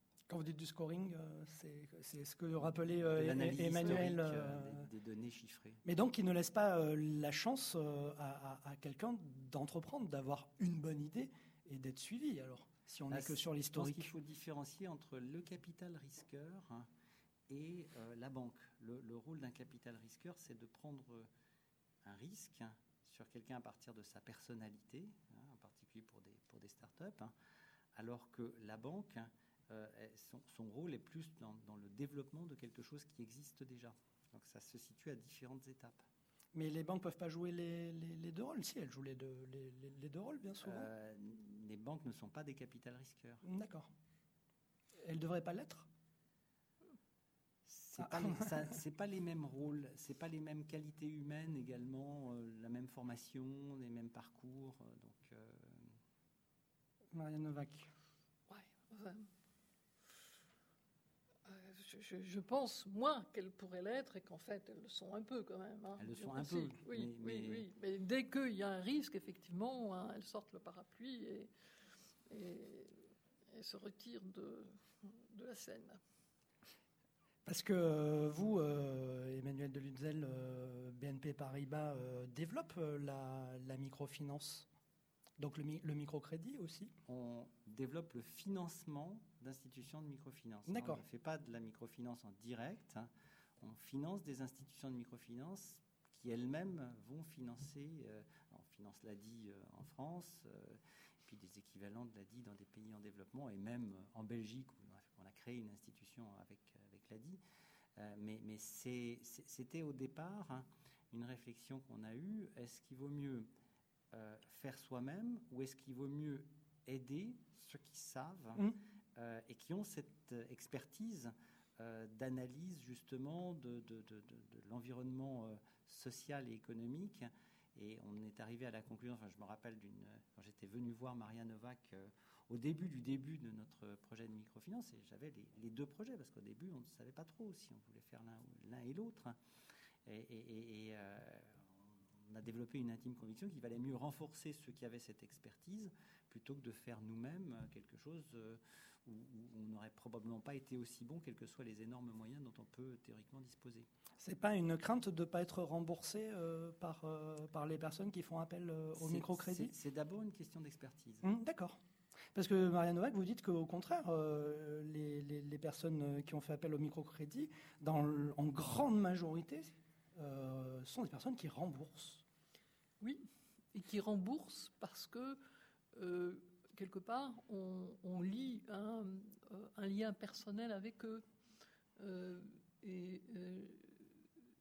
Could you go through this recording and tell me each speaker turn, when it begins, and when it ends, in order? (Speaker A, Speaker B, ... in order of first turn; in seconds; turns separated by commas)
Speaker A: 0.3-4.8, Speaker B: 3.1-5.8, Speaker A: 5.8-14.1, Speaker B: 13.1-16.9, Speaker B: 17.5-21.3, Speaker B: 22.0-27.3, Speaker B: 27.9-36.0, Speaker A: 36.5-40.9, Speaker B: 40.6-43.4, Speaker A: 43.4-43.9, Speaker A: 45.0-45.9, Speaker B: 47.7-56.0, Speaker A: 48.0-48.6, Speaker A: 57.1-57.9, Speaker C: 58.5-59.3, Speaker C: 61.5-71.5, Speaker B: 66.0-67.7, Speaker C: 72.3-73.0, Speaker C: 73.5-76.0, Speaker A: 77.5-84.7, Speaker A: 85.4-86.9, Speaker B: 87.0-93.1, Speaker A: 90.7-91.0, Speaker B: 93.6-107.4, Speaker B: 108.0-113.5, Speaker B: 114.1-139.4, Speaker B: 140.1-141.7, Speaker B: 142.3-153.9, Speaker A: 154.2-159.7, Speaker B: 159.0-161.3, Speaker A: 161.2-161.8, Speaker A: 162.3-172.2, Speaker C: 173.0-175.4, Speaker C: 175.9-181.2, Speaker C: 182.0-184.0